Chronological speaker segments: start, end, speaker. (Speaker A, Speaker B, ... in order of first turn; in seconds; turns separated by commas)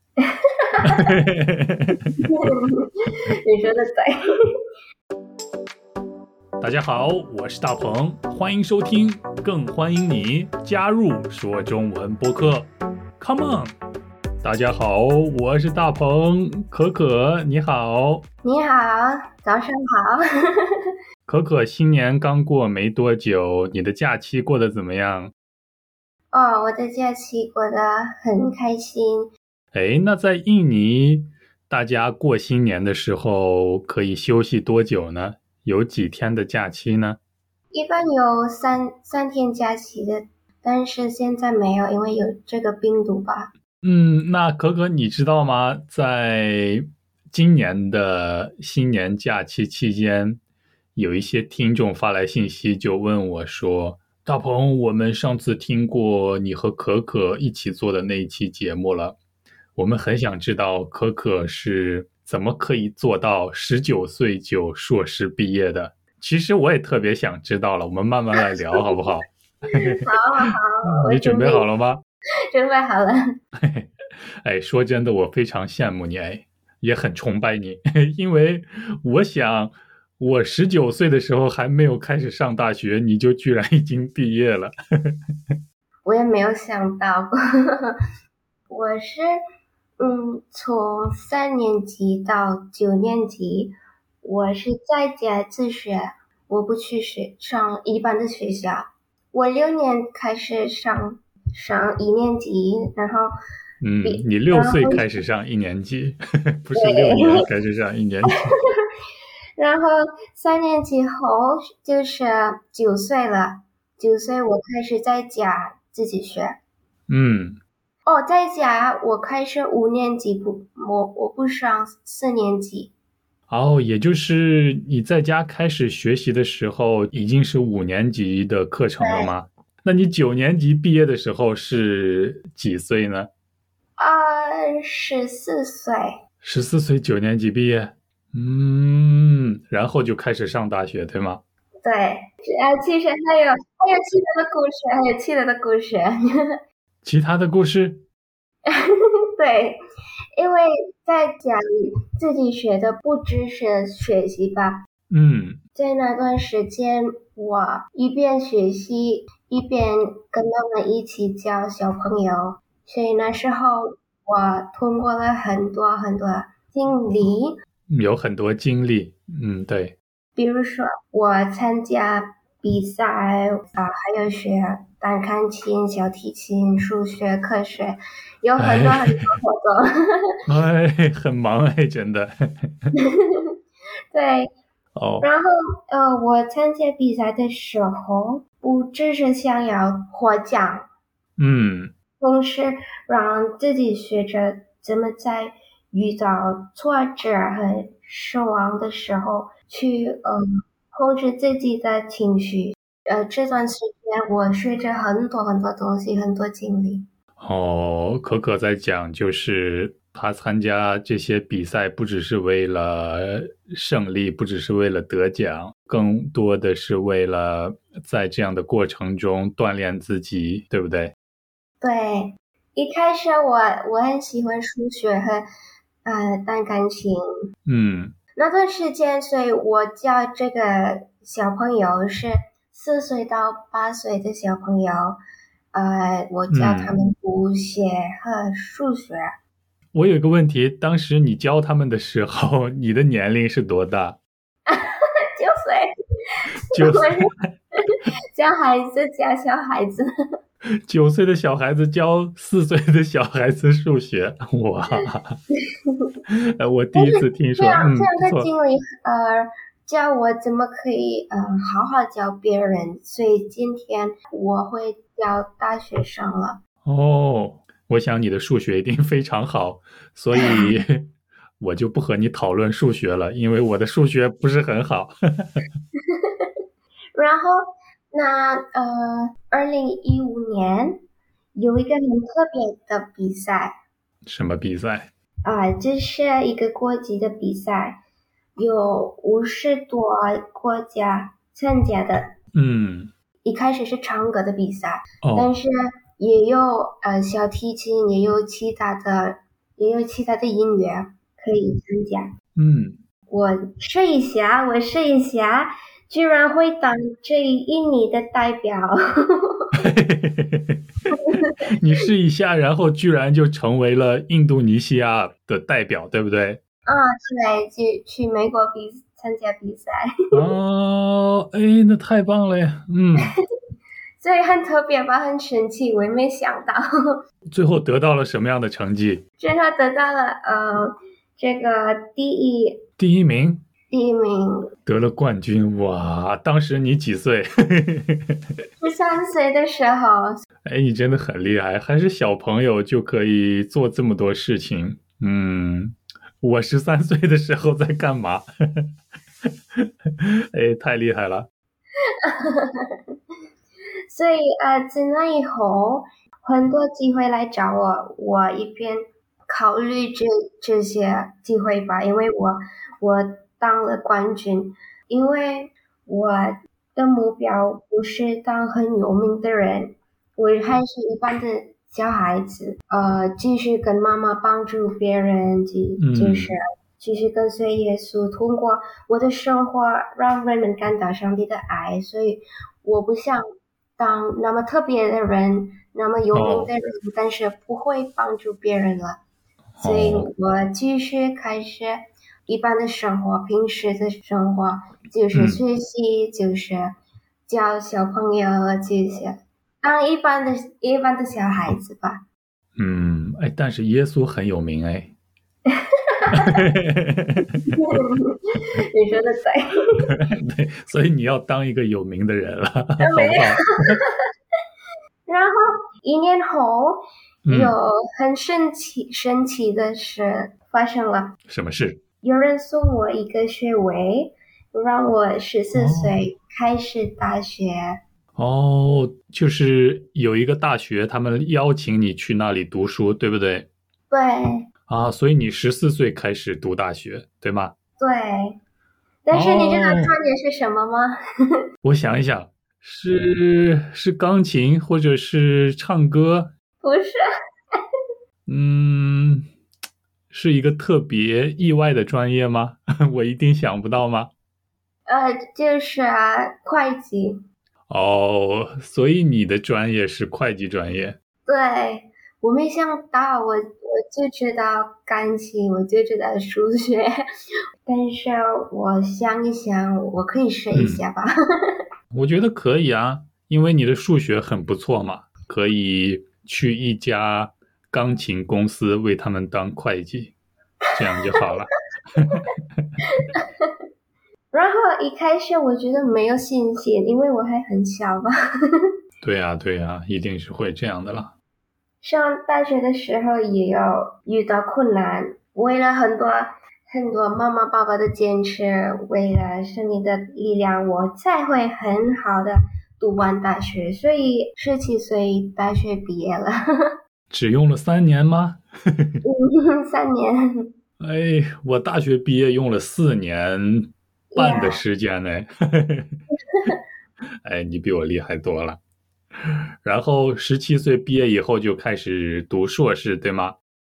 Speaker A: 0.2-1.1, Speaker B: 0.8-2.1, Speaker A: 2.2-2.9, Speaker A: 3.4-4.2, Speaker B: 6.6-13.8, Speaker B: 14.4-18.2, Speaker A: 18.4-20.2, Speaker B: 21.3-25.3, Speaker A: 26.3-29.3, Speaker B: 29.7-37.2, Speaker A: 37.7-43.5, Speaker B: 43.8-50.4, Speaker B: 51.0-59.2, Speaker B: 59.8-70.1, Speaker A: 69.7-71.7, Speaker B: 71.0-72.0, Speaker A: 72.5-73.2, Speaker B: 73.6-73.9, Speaker B: 74.4-85.1, Speaker A: 86.0-88.0, Speaker A: 88.7-89.4, Speaker A: 90.0-103.3, Speaker B: 103.8-108.4, Speaker A: 104.0-105.1, Speaker A: 106.8-107.5, Speaker A: 109.6-116.6, Speaker B: 117.1-117.6, Speaker A: 118.1-122.9, Speaker B: 123.5-133.3, Speaker A: 129.0-129.3, Speaker A: 134.0-136.1, Speaker B: 136.4-141.4, Speaker A: 141.8-146.5, Speaker B: 147.0-148.1, Speaker A: 149.4-149.8, Speaker A: 150.4-154.8, Speaker B: 155.1-155.6, Speaker A: 155.8-167.5, Speaker B: 167.9-170.0, Speaker A: 170.4-179.8, Speaker B: 178.6-179.2, Speaker B: 180.5-182.7, Speaker A: 184.1-184.5, Speaker B: 185.0-185.3, Speaker A: 185.2-190.9, Speaker B: 191.4-191.9, Speaker A: 192.2-207.1, Speaker B: 207.4-221.1, Speaker A: 221.8-225.4, Speaker A: 226.1-227.2, Speaker B: 227.7-228.2, Speaker A: 228.4-235.2, Speaker A: 235.7-239.3, Speaker B: 236.5-236.9, Speaker B: 239.9-244.2, Speaker A: 245.4-245.9, Speaker B: 246.7-247.5, Speaker A: 246.7-247.2, Speaker A: 248.4-250.1, Speaker B: 250.9-255.4, Speaker B: 256.3-258.5, Speaker A: 256.9-266.6, Speaker B: 266.9-271.1, Speaker A: 270.4-270.7, Speaker B: 271.6-275.6, Speaker A: 276.1-276.5, Speaker A: 277.1-281.0, Speaker A: 281.6-283.8, Speaker B: 284.3-285.1, Speaker A: 285.5-288.0, Speaker A: 288.6-292.3, Speaker B: 292.6-293.1, Speaker A: 293.4-302.3, Speaker B: 295.2-295.5, Speaker B: 302.6-303.0, Speaker A: 303.3-309.8, Speaker B: 309.8-310.8, Speaker A: 311.1-311.5, Speaker B: 311.6-316.6, Speaker A: 316.9-320.0, Speaker B: 320.3-323.3, Speaker A: 324.2-326.9, Speaker B: 327.5-329.2, Speaker A: 329.4-332.8, Speaker B: 333.0-333.6, Speaker A: 333.9-334.6, Speaker B: 334.9-338.4, Speaker A: 338.8-340.4, Speaker B: 340.7-348.9, Speaker B: 350.5-351.5, Speaker A: 352.2-352.7, Speaker A: 354.1-383.4, Speaker B: 376.0-376.6, Speaker A: 384.0-389.2, Speaker B: 386.3-386.7, Speaker B: 389.8-390.3, Speaker A: 389.8-396.9, Speaker B: 395.3-395.6, Speaker A: 397.5-402.2, Speaker B: 402.8-405.1, Speaker A: 405.7-406.6, Speaker B: 406.3-407.4, Speaker A: 407.7-409.7, Speaker B: 410.1-414.0, Speaker A: 413.0-414.0, Speaker A: 415.3-421.3, Speaker B: 417.5-417.8, Speaker B: 421.5-422.0, Speaker A: 422.2-428.0, Speaker B: 425.7-426.2, Speaker B: 428.4-433.7, Speaker A: 434.1-434.7, Speaker B: 434.9-437.7, Speaker A: 438.0-438.6, Speaker A: 439.3-441.1, Speaker B: 439.3-440.1, Speaker B: 441.8-446.5, Speaker A: 446.8-447.2, Speaker B: 448.5-449.4, Speaker B: 450.3-454.3, Speaker A: 455.1-457.4, Speaker B: 457.9-461.2, Speaker A: 461.5-467.1, Speaker A: 467.9-471.8, Speaker B: 470.7-471.0, Speaker B: 472.1-480.3, Speaker B: 481.0-482.5, Speaker A: 483.4-483.7, Speaker A: 484.5-488.3, Speaker B: 489.2-491.3, Speaker A: 492.0-506.6, Speaker B: 507.3-509.2, Speaker A: 509.2-510.7, Speaker B: 511.0-516.1, Speaker A: 514.3-514.8, Speaker B: 517.4-518.8, Speaker B: 519.8-523.6